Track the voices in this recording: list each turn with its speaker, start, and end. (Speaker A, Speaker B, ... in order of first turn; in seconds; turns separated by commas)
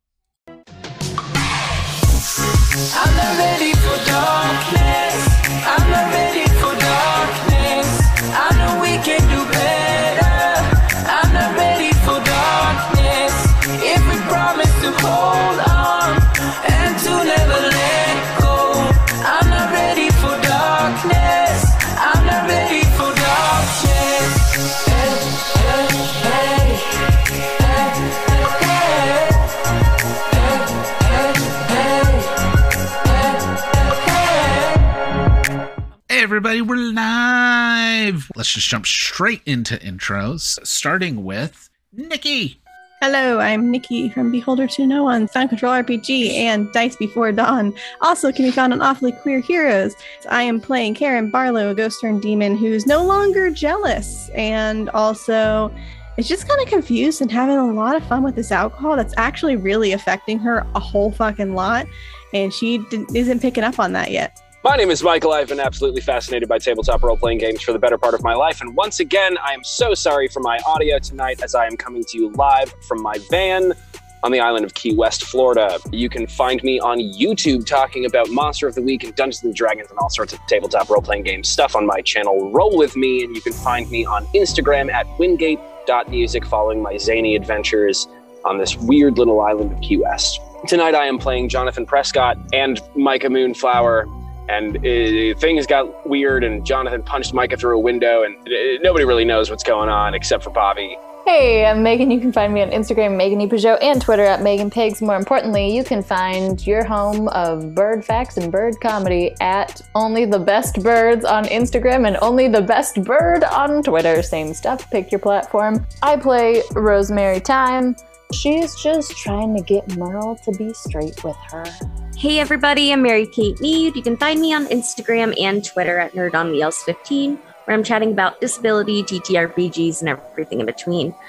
Speaker A: 2.9-26.8, Speaker A: 27.7-27.9, Speaker A: 28.6-29.1, Speaker A: 31.6-32.0, Speaker B: 36.1-42.6, Speaker C: 43.0-64.3, Speaker D: 64.6-101.0, Speaker E: 101.2-121.8, Speaker F: 122.2-131.2